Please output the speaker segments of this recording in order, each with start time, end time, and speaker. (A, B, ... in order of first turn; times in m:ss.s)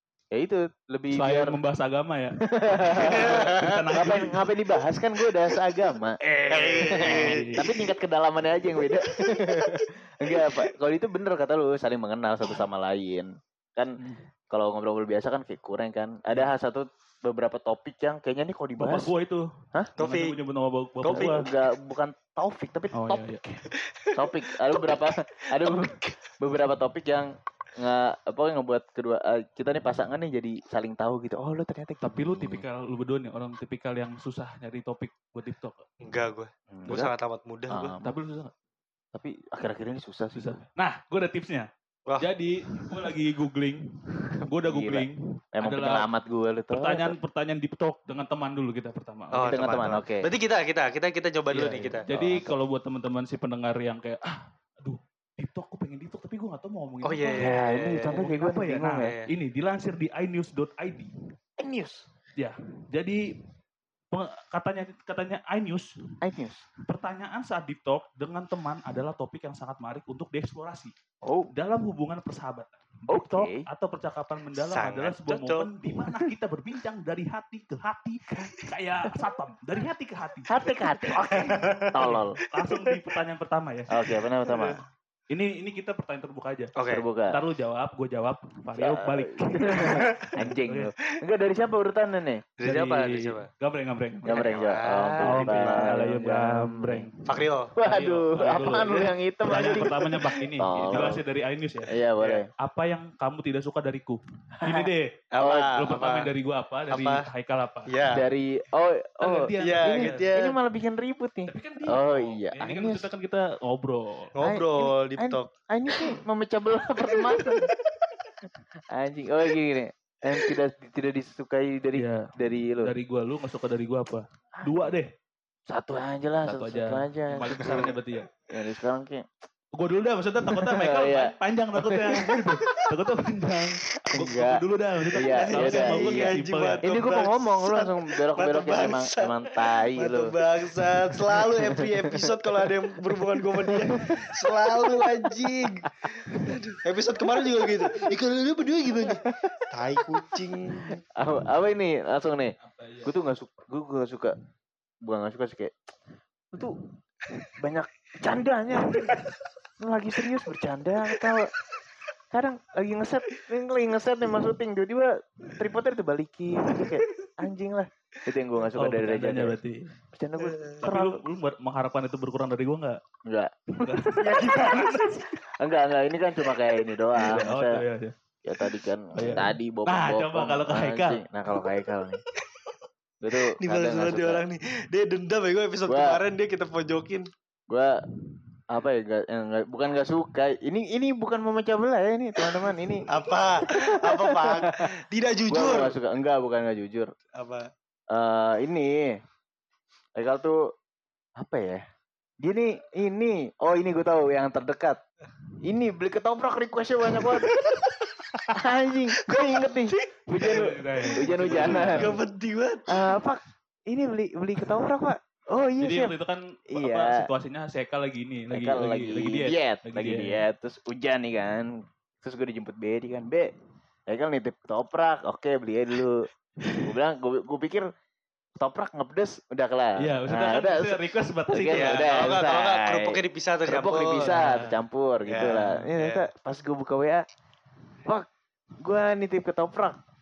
0:00.3-0:01.6 A
0:01.1-0:04.4 B
0:02.4-0:06.2 A
0:03.0-0:03.7 C
0:06.2-0:07.7 B
0:06.5-0:07.7 C
0:06.9-0:14.0 A
0:14.5-0:19.1 A
0:18.8-0:21.5 B
0:20.0-0:20.4 C
0:21.0-0:21.4 C
0:21.0-0:32.6 A
0:22.9-0:23.4 B
0:23.8-0:26.2 C
0:32.0-0:35.8 B
0:36.0-0:38.0 C
0:36.7-0:37.1 A
0:37.7-0:38.1 A
0:38.0-0:38.5 B
0:39.1-0:40.6 A
0:40.4-0:41.7 B
0:42.2-0:46.1 B
0:44.5-0:47.2 A
0:46.7-0:49.6 B
0:49.3-0:52.0 C
0:49.4-0:50.3 A
0:51.5-1:01.1 B
0:52.1-0:52.5 A
0:57.0-0:58.2 C
0:57.3-0:59.1 A
0:58.9-0:59.3 C
1:01.6-1:02.0 A
1:02.4-1:03.3 B
1:04.1-1:05.9 B
1:06.2-1:06.6 A
1:06.9-1:11.0 B
1:11.2-1:11.5 A
1:11.5-1:23.9 B
1:13.1-1:13.7 A
1:14.6-1:15.8 C
1:18.3-1:19.1 A
1:20.5-1:22.4 A
1:21.3-1:23.0 C
1:23.9-1:24.8 A
1:24.4-1:24.8 C
1:25.3-1:26.7 B
1:26.8-1:27.1 C
1:26.9-1:27.4 A
1:27.3-1:30.9 B
1:28.7-1:32.4 A
1:29.9-1:30.4 C
1:32.6-1:33.5 C
1:32.6-1:34.5 B
1:34.2-1:37.1 A
1:34.3-1:35.9 C
1:35.2-1:37.1 B
1:37.2-1:37.7 C
1:37.7-1:41.2 A
1:37.8-1:41.9 B
1:41.9-1:42.5 A
1:42.2-1:42.4 C
1:42.6-1:47.9 B
1:44.5-1:45.8 A
1:45.3-1:46.3 C
1:46.9-1:47.2 C
1:47.9-1:48.3 C
1:48.1-1:53.1 A
1:49.2-1:50.3 B
1:49.6-1:50.6 C
1:51.5-1:54.3 B
1:54.4-1:55.5 C
1:54.4-1:57.7 A
1:58.9-2:03.0 A
2:01.9-2:05.1 B
2:04.6-2:05.0 A
2:05.7-2:08.0 A
2:06.4-2:08.3 B
2:08.5-2:09.3 A
2:09.7-2:16.8 B
2:10.5-2:12.8 A
2:14.1-2:14.6 A
2:15.1-2:20.3 A
2:15.2-2:31.0 C
2:21.3-2:26.6 A
2:27.4-2:28.2 A
2:29.0-2:34.4 A
2:32.6-2:33.1 B
2:35.0-2:35.8 A
2:36.5-2:36.8 A
2:37.6-2:39.2 A
2:39.8-2:41.5 A
2:42.3-2:49.6 A
2:48.8-2:50.0 B
2:50.1-2:51.2 A
2:50.4-2:50.9 C
2:50.8-2:53.0 B
2:53.3-2:57.8 A
2:53.8-2:55.4 B
2:54.2-2:55.1 C
2:57.2-2:58.2 B
2:58.4-3:02.2 A
2:59.1-3:01.2 B
3:03.2-3:04.4 A
3:03.6-3:07.3 C
3:05.9-3:06.2 A
3:07.7-3:08.0 A
3:08.7-3:14.9 A
3:12.4-3:16.0 C
3:15.5-3:17.1 A
3:17.4-3:17.7 C
3:18.1-3:19.2 A
3:20.2-3:20.7 A
3:21.4-3:21.8 A
3:22.4-3:25.0 A
3:25.6-3:27.5 A
3:27.1-3:28.6 C
3:28.5-3:32.1 A
3:29.2-3:33.2 C
3:30.4-3:32.2 B
3:32.9-3:36.2 A
3:35.8-3:40.4 B
3:36.7-3:37.3 A
3:38.5-3:43.5 A
3:44.1-3:47.9 A
3:48.6-3:57.2 A
3:50.0-3:52.4 B
3:51.7-3:54.4 C
3:54.2-3:54.8 B
3:55.3-3:56.3 C
3:58.8-4:00.0 A